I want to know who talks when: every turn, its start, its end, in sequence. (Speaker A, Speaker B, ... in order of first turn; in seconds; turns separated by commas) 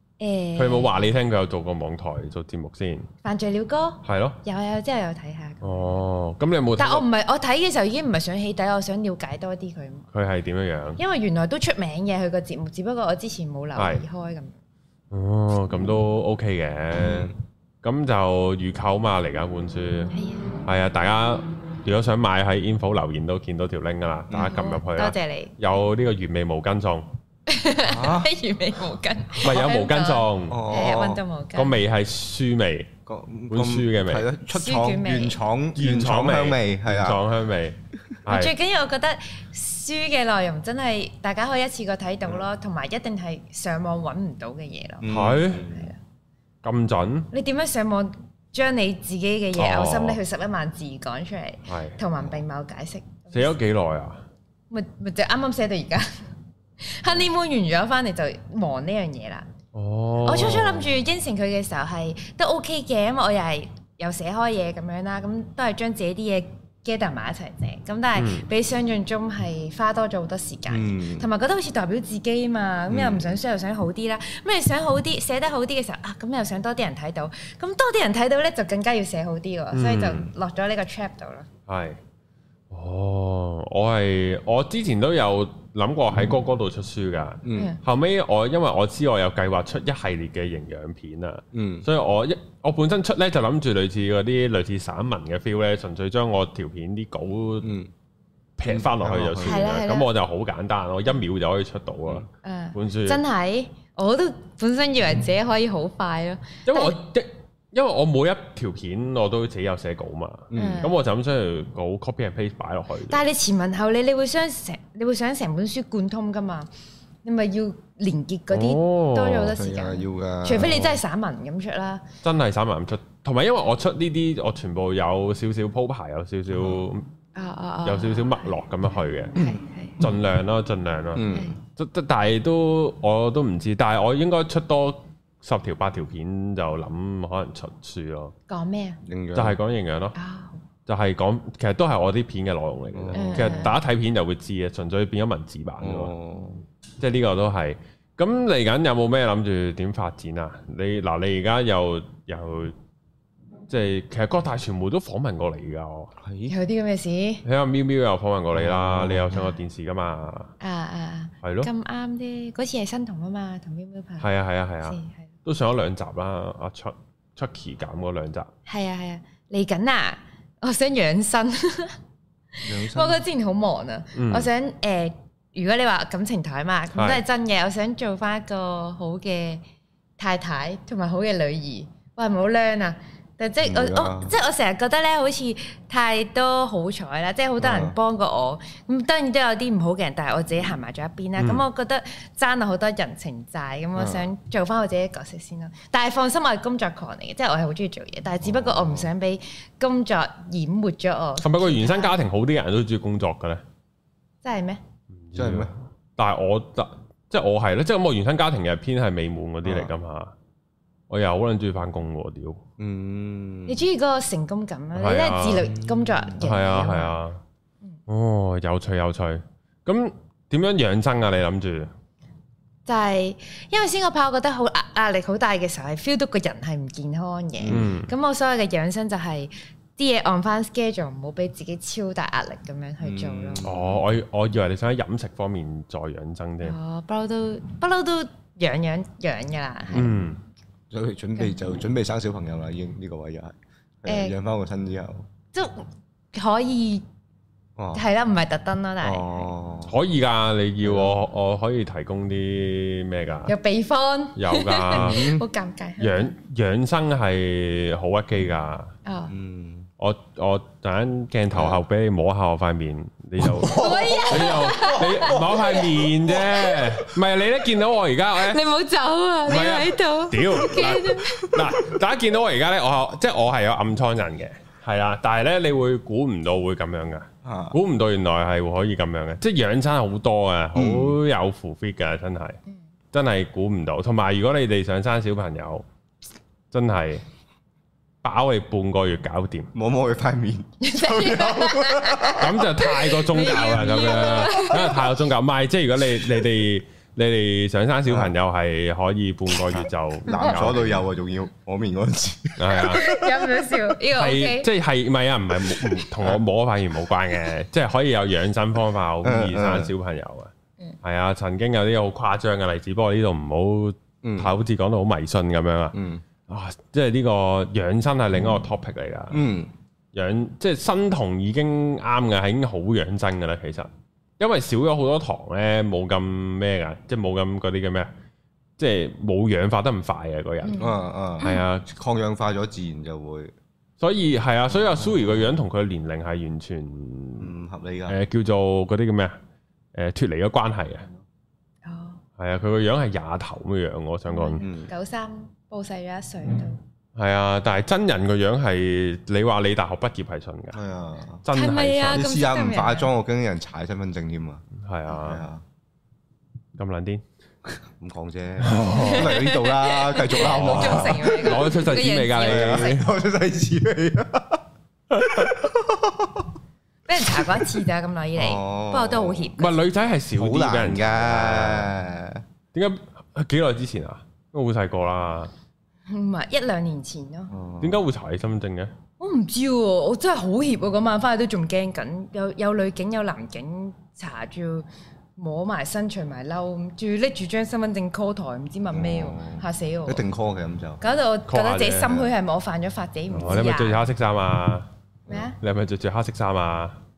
Speaker A: 0.2-1.1, Speaker B: 0.6-3.1, Speaker A: 3.2-5.8, Speaker B: 4.0-4.4, Speaker B: 5.6-7.0, Speaker A: 6.8-10.1, Speaker B: 10.1-11.0, Speaker A: 11.0-14.5, Speaker B: 13.8-14.0, Speaker B: 15.1-17.3, Speaker C: 16.9-17.4, Speaker B: 17.8-20.1, Speaker A: 20.1-20.6, Speaker B: 20.6-27.1, Speaker C: 24.3-24.6, Speaker A: 24.5-25.5, Speaker A: 27.5-31.8, Speaker C: 27.9-28.3, Speaker B: 29.4-30.6, Speaker C: 30.5-31.2, Speaker B: 31.6-32.9, Speaker C: 33.1-37.2, Speaker B: 33.5-34.3, Speaker A: 34.5-35.4, Speaker B: 35.8-38.5, Speaker A: 38.3-46.0, Speaker C: 45.0-45.9, Speaker B: 45.1-45.7, Speaker B: 46.6-47.3, Speaker A: 47.3-53.5, Speaker B: 49.6-50.2, Speaker B: 51.7-52.0, Speaker B: 53.3-54.2, Speaker A: 54.7-56.1, Speaker A: 56.8-59.5, Speaker B: 59.7-60.9, Speaker A: 60.2-81.5, Speaker B: 68.2-68.5, Speaker C: 70.7-71.3, Speaker C: 72.9-73.3, Speaker B: 79.7-80.3, Speaker B: 81.7-82.0, Speaker B: 82.7-97.7, Speaker C: 87.4-87.8, Speaker C: 91.5-91.9, Speaker C: 97.6-97.9, Speaker B: 98.6-103.2, Speaker C: 98.7-99.7, Speaker A: 99.4-100.1, Speaker A: 102.4-107.0, Speaker B: 106.7-113.2, Speaker C: 110.5-110.8, Speaker A: 110.5-111.0, Speaker A: 113.1-116.7, Speaker A: 117.2-122.0, Speaker B: 118.5-119.6, Speaker C: 119.5-120.8, Speaker B: 120.6-121.0, Speaker B: 122.2-127.0, Speaker C: 126.5-126.8, Speaker A: 127.3-128.5, Speaker B: 127.8-129.4, Speaker A: 129.3-130.0, Speaker B: 130.0-138.3, Speaker C: 131.1-131.6, Speaker A: 131.3-131.5, Speaker A: 138.5-139.0, Speaker C: 139.0-139.6, Speaker B: 139.3-140.2, Speaker A: 140.2-140.6, Speaker B: 140.9-146.1, Speaker C: 142.9-143.7, Speaker A: 143.2-143.8, Speaker C: 145.8-146.6, Speaker B: 147.0-152.8, Speaker B: 153.7-156.1, Speaker C: 156.2-156.6, Speaker A: 156.5-157.4, Speaker B: 157.4-160.5, Speaker C: 158.5-159.4, Speaker A: 160.6-164.3, Speaker B: 161.4-161.7, Speaker B: 164.2-168.5, Speaker A: 164.8-165.3, Speaker A: 168.7-172.0, Speaker A: 172.5-179.6, Speaker C: 172.6-173.2, Speaker B: 174.2-174.5, Speaker B: 176.9-177.2, Speaker A: 180.2-202.2, Speaker C: 183.6-184.3, Speaker C: 187.6-188.0, Speaker C: 194.0-194.3, Speaker C: 198.4-199.1, Speaker B: 201.4-203.6, Speaker A: 204.4-204.8, Speaker B: 205.2-210.3, Speaker C: 205.3-205.7, Speaker C: 209.6-209.9, Speaker B: 211.1-212.6, Speaker C: 212.8-213.8, Speaker A: 213.7-217.2, Speaker B: 214.9-215.7, Speaker C: 215.6-216.4, Speaker B: 216.4-217.4, Speaker B: 218.1-221.9, Speaker A: 222.9-233.7, Speaker C: 227.6-227.9, Speaker B: 227.7-228.1, Speaker C: 233.0-234.0, Speaker B: 233.6-236.8, Speaker A: 236.6-240.2, Speaker B: 239.9-240.4, Speaker C: 240.9-245.3, Speaker A: 244.1-244.3, Speaker A: 245.5-247.1, Speaker C: 247.8-248.0, Speaker A: 247.9-249.5, Speaker C: 249.0-249.9, Speaker B: 249.9-253.5, Speaker C: 250.8-251.2, Speaker A: 253.5-256.3, Speaker B: 254.3-255.3, Speaker C: 254.9-255.5, Speaker B: 256.0-258.9, Speaker A: 259.1-259.3, Speaker C: 259.3-259.9, Speaker B: 260.0-268.6, Speaker C: 261.5-261.8, Speaker C: 263.4-267.2, Speaker A: 263.6-266.6, Speaker A: 268.4-271.6, Speaker B: 269.5-282.6, Speaker C: 277.4-277.8, Speaker C: 280.8-281.2, Speaker B: 283.1-285.9, Speaker B: 286.7-287.2, Speaker B: 288.2-289.7, Speaker C: 289.7-292.6, Speaker A: 290.8-295.1, Speaker B: 292.3-301.0, Speaker C: 298.1-298.3, Speaker C: 299.6-303.5, Speaker A: 300.3-300.6, Speaker B: 302.6-303.1, Speaker A: 302.9-304.7, Speaker B: 304.1-310.5, Speaker C: 309.2-309.9, Speaker B: 311.0-315.9, Speaker C: 314.2-314.5, Speaker C: 315.9-316.2, Speaker B: 316.5-319.4, Speaker C: 319.3-319.7, Speaker B: 320.1-328.1, Speaker B: 328.8-330.8, Speaker A: 330.6-331.6, Speaker C: 330.8-333.5, Speaker B: 331.4-331.9, Speaker B: 334.0-337.5, Speaker C: 334.7-335.6, Speaker C: 337.4-338.2, Speaker B: 338.1-339.4, Speaker B: 339.9-341.1, Speaker A: 341.8-342.2, Speaker B: 342.4-344.6, Speaker A: 344.3-346.8, Speaker C: 344.6-344.9, Speaker B: 347.2-350.8, Speaker C: 350.7-351.4, Speaker B: 351.4-352.3, Speaker A: 351.5-353.1, Speaker C: 352.0-355.6, Speaker B: 354.8-355.4, Speaker B: 356.8-357.2, Speaker C: 357.7-361.6, Speaker B: 358.6-359.4, Speaker A: 358.9-362.9, Speaker B: 360.4-363.1, Speaker C: 362.4-364.6, Speaker B: 365.1-365.5, Speaker C: 365.3-366.5, Speaker A: 367.1-369.8, Speaker C: 367.4-367.7, Speaker C: 368.4-369.5, Speaker B: 369.6-371.9, Speaker C: 370.4-372.4, Speaker B: 372.7-375.5, Speaker A: 376.1-377.5, Speaker C: 377.5-378.0, Speaker B: 377.8-378.9, Speaker A: 379.2-390.2, Speaker C: 388.9-391.0, Speaker A: 391.0-394.1, Speaker B: 391.5-392.2, Speaker C: 393.3-393.7, Speaker B: 393.4-394.9, Speaker A: 395.3-395.6, Speaker B: 395.6-397.0